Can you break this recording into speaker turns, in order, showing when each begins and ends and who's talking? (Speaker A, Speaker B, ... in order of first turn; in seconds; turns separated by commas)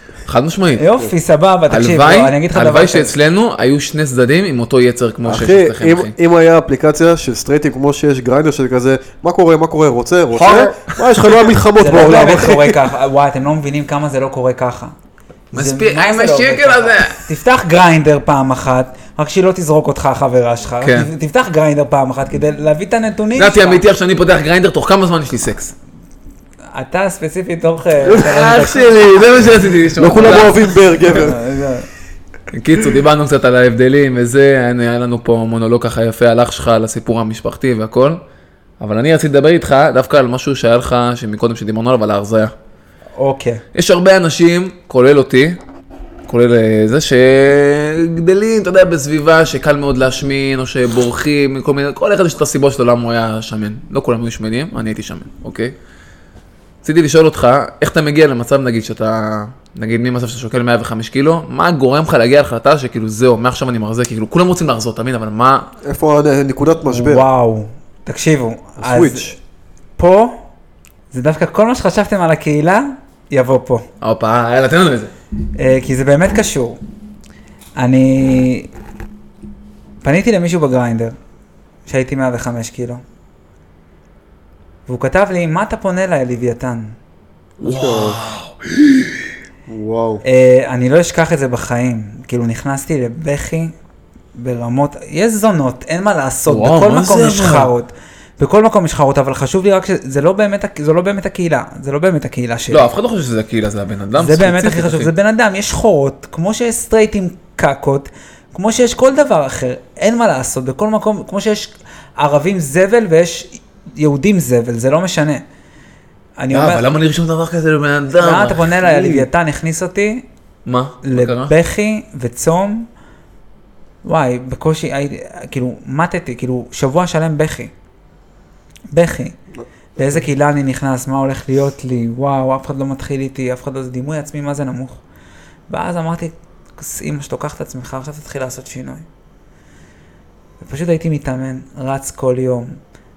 Speaker A: 0.2-0.9, Speaker B: 0.8-3.1, Speaker A: 1.7-6.1, Speaker C: 5.2-12.8, Speaker A: 10.3-11.5, Speaker B: 11.8-14.9, Speaker A: 15.5-17.2, Speaker B: 15.5-23.8, Speaker A: 20.8-21.1, Speaker A: 23.4-25.7, Speaker B: 26.7-29.1, Speaker A: 28.1-30.7, Speaker C: 30.0-31.4, Speaker B: 31.0-31.9, Speaker A: 32.5-38.2, Speaker A: 38.8-42.5, Speaker B: 43.2-43.6, Speaker A: 43.7-45.6, Speaker A: 46.3-55.7, Speaker A: 56.8-65.7, Speaker C: 65.8-67.2, Speaker B: 66.9-69.3, Speaker C: 68.8-69.4, Speaker B: 70.0-70.4, Speaker B: 71.1-73.9, Speaker A: 74.0-75.1, Speaker B: 75.5-76.8, Speaker B: 77.8-78.7, Speaker B: 80.0-81.2, Speaker B: 81.9-83.0, Speaker B: 84.9-87.0, Speaker C: 87.6-88.2, Speaker A: 87.6-89.2, Speaker C: 89.7-90.2, Speaker B: 90.2-93.7, Speaker B: 94.3-102.9, Speaker A: 96.5-97.7, Speaker A: 102.7-105.1, Speaker B: 104.2-115.4, Speaker B: 116.4-116.8, Speaker A: 116.5-119.2, Speaker B: 118.2-120.2, Speaker A: 120.7-121.5, Speaker B: 121.0-122.9, Speaker B: 124.0-127.7, Speaker B: 128.9-129.4, Speaker C: 129.6-130.2, Speaker B: 130.0-135.0, Speaker B: 135.7-139.0, Speaker B: 140.6-142.8